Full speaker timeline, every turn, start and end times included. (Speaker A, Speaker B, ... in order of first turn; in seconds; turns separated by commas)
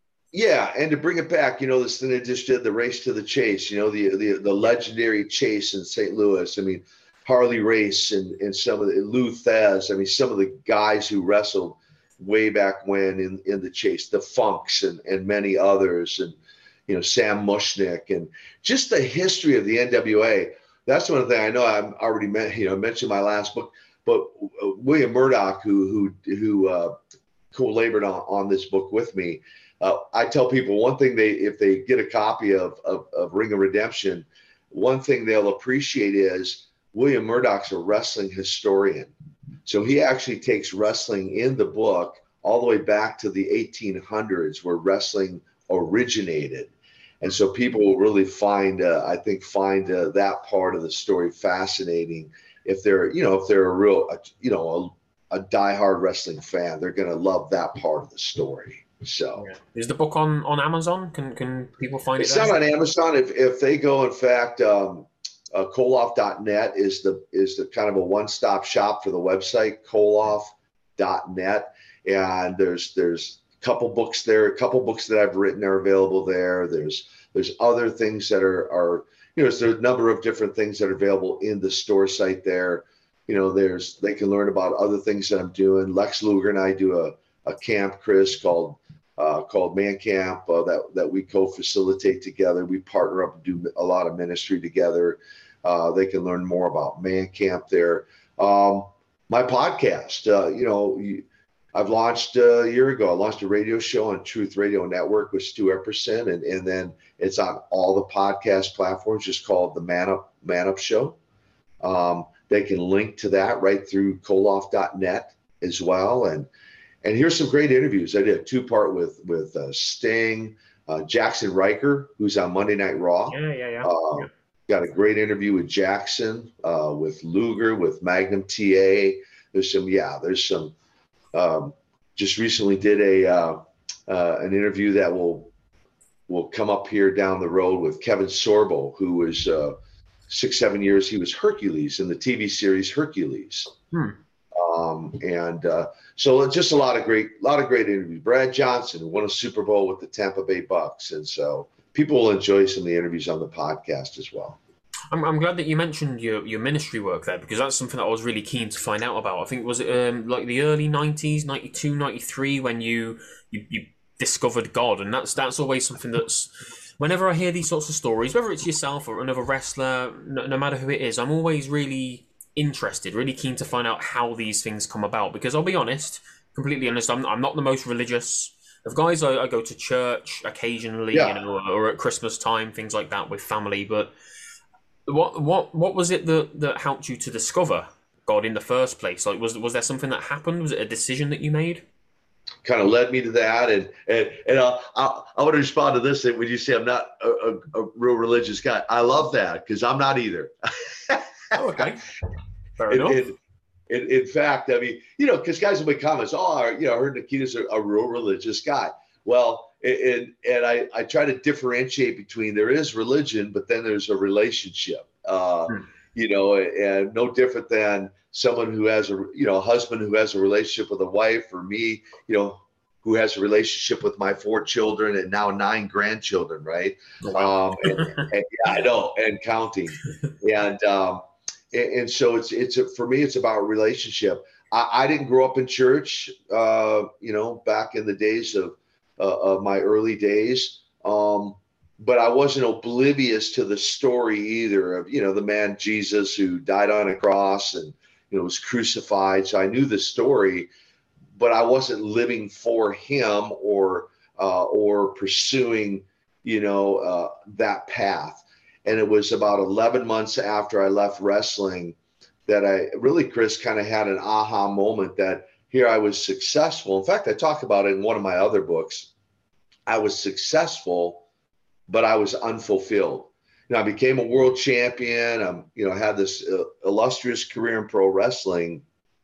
Speaker A: 0.3-27.0, Speaker A: 27.5-39.1, Speaker A: 39.6-59.5, Speaker B: 59.4-62.6, Speaker A: 62.2-111.2, Speaker A: 111.8-116.5, Speaker A: 117.0-130.8, Speaker B: 123.3-124.3, Speaker A: 131.3-135.5, Speaker A: 136.3-139.8, Speaker A: 140.3-143.7, Speaker B: 143.9-144.2, Speaker A: 144.5-154.6, Speaker B: 155.1-184.1, Speaker A: 181.1-181.4, Speaker B: 185.1-191.8, Speaker A: 192.6-201.9, Speaker B: 201.5-202.1, Speaker B: 202.8-203.2, Speaker A: 202.9-203.4, Speaker A: 203.9-250.7, Speaker B: 227.2-228.3, Speaker A: 251.3-262.0, Speaker A: 262.5-269.1, Speaker A: 269.9-271.2, Speaker A: 271.9-278.8